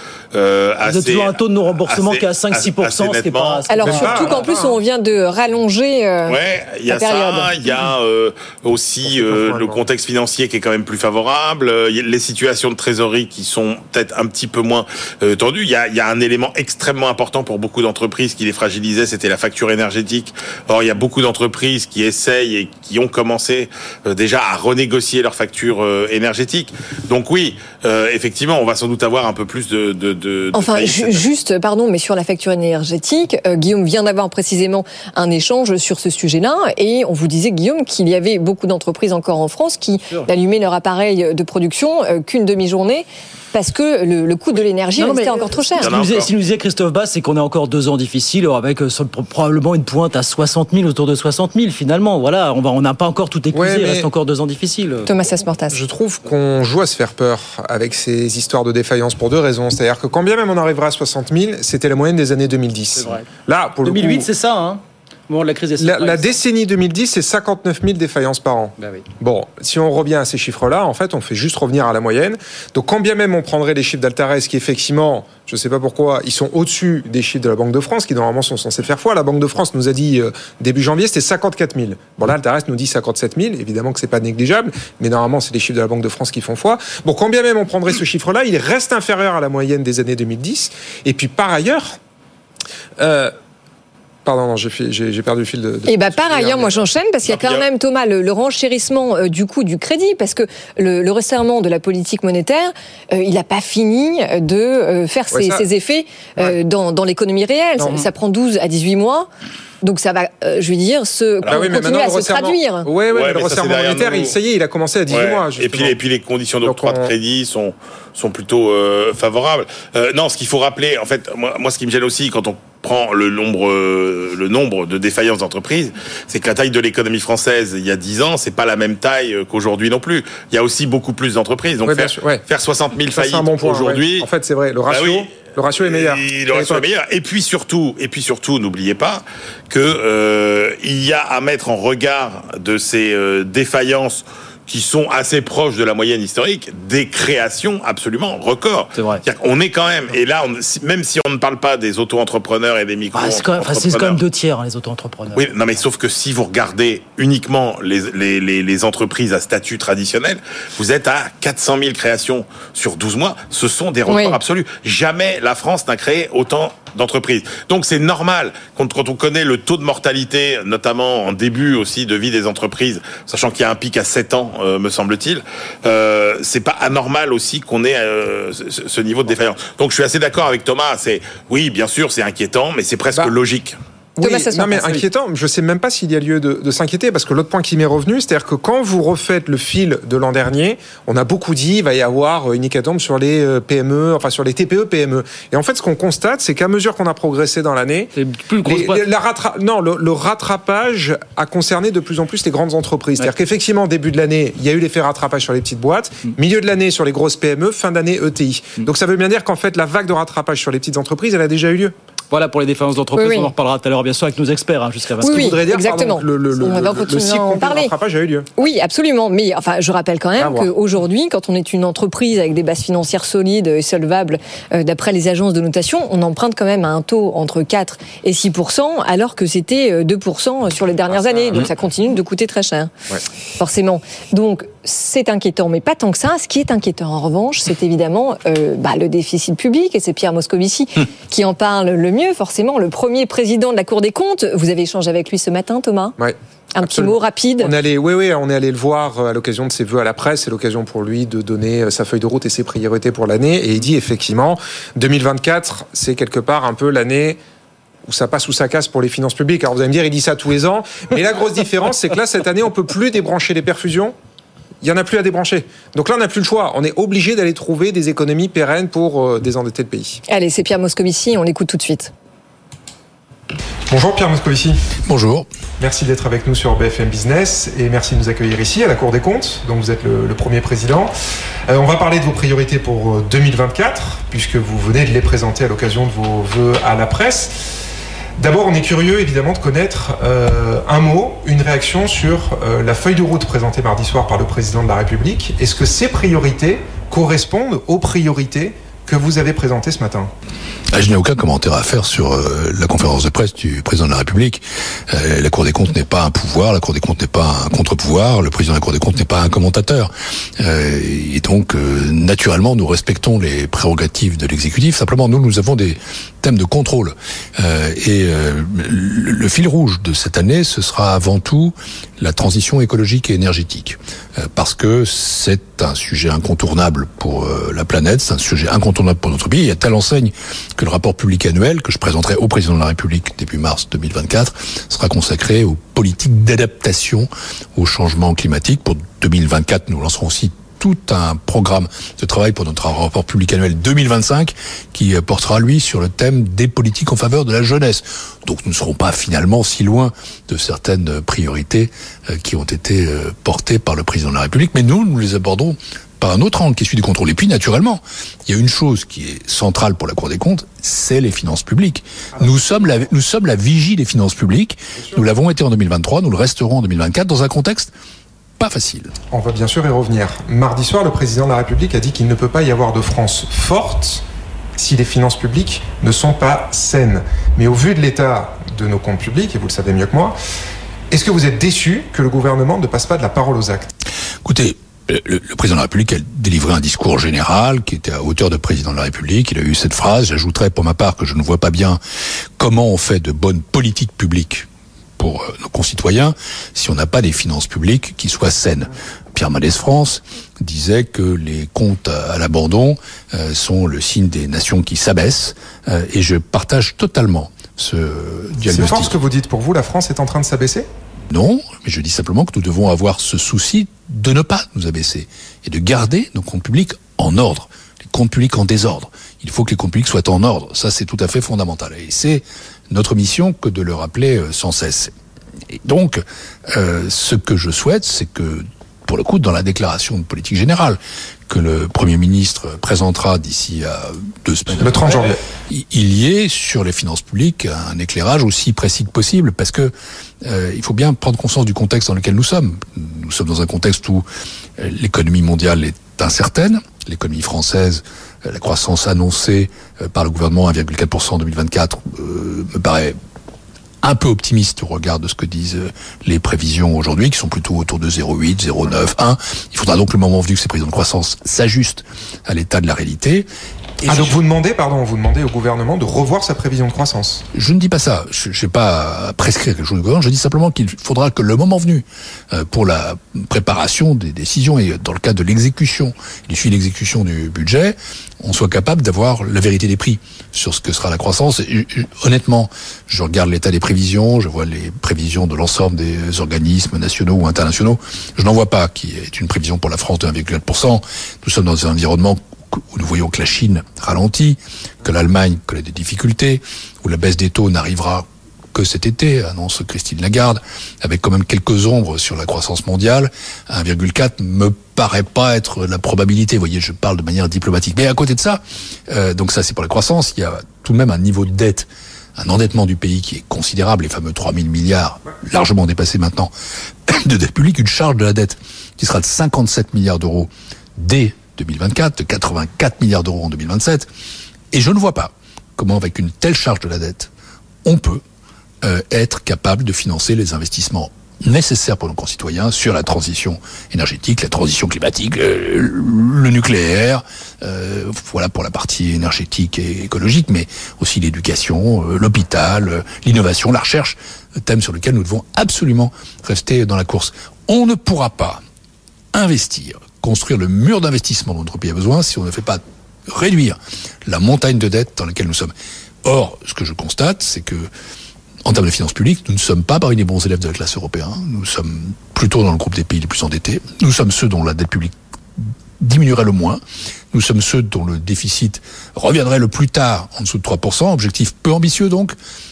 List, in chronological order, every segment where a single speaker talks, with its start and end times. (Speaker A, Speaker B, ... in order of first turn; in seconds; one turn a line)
Speaker A: 0.3-3.6
Speaker B: 0.8-4.5
Speaker C: 3.7-6.4
Speaker D: 3.8-4.8
Speaker A: 6.3-31.3
Speaker C: 6.9-7.5
Speaker D: 9.0-9.8
Speaker C: 30.5-45.9
Speaker B: 45.0-55.1
Speaker A: 45.8-46.3
Speaker D: 53.5-54.1
Speaker C: 55.0-55.8
Speaker D: 55.7-64.3
Speaker B: 63.0-63.2
Speaker B: 63.8-66.4
Speaker D: 65.8-92.0
Speaker B: 68.8-69.0
Speaker D: 93.0-93.3
Speaker D: 94.2-96.8
Speaker C: 95.8-109.3
Speaker A: 97.3-97.7
Speaker D: 105.3-105.7
Speaker D: 107.8-108.1
Speaker C: 109.8-112.9
Speaker D: 111.5-116.0
Speaker A: 113.1-114.3
Speaker A: 115.1-134.2
Speaker D: 116.6-117.1
Speaker D: 131.8-132.4
Speaker D: 133.1-136.8
Speaker A: 134.9-154.2
Speaker B: 148.9-149.2
Speaker B: 153.1-155.7
Speaker A: 155.3-183.8
Speaker C: 164.1-164.4
Speaker D: 184.2-198.1
Speaker C: 184.2-185.0
Speaker B: 198.2-199.0
Speaker D: 198.6-211.9
Speaker B: 212.3-215.6
Speaker C: 213.1-213.5
Speaker D: 215.2-218.5
Speaker C: 215.2-217.9
Speaker C: 218.6-232.9
Speaker D: 220.4-220.7
Speaker D: 231.1-231.7
Speaker C: 233.6-246.2
Speaker D: 246.2-257.4
Speaker C: 246.7-247.7
Speaker D: 258.1-264.1
Speaker D: 264.8-270.2
Speaker C: 270.3-272.1
Speaker D: 273.9-274.8
Speaker E: 275.1-275.5
Speaker D: 275.8-281.1
Speaker D: 281.7-287.5
Speaker D: 288.4-300.3
Speaker E: 300.9-367.9
Speaker D: 362.4-363.1
Speaker D: 365.0-365.2
Speaker E: 368.6-369.1
Speaker D: 369.3-374.2
Speaker D: 374.8-380.4
Speaker D: 381.1-383.9
Speaker E: 384.4-392.0
Speaker E: 392.6-394.7
Speaker E: 395.2-409.2
Speaker D: 408.6-410.9
Speaker E: 411.3-425.1
Speaker E: 425.7-444.2
Speaker D: 434.8-435.4
Speaker E: 444.8-453.1
Speaker E: 454.0-463.5
Speaker E: 464.0-464.4
Speaker D: 464.1-467.4
Speaker E: 467.5-516.5
Speaker E: 517.1-524.1
Speaker E: 524.7-527.3
Speaker E: 527.8-528.2
Speaker E: 528.8-548.6
Speaker E: 549.3-555.7
Speaker E: 556.2-557.9
Speaker E: 558.6-566.8
Speaker E: 567.3-572.4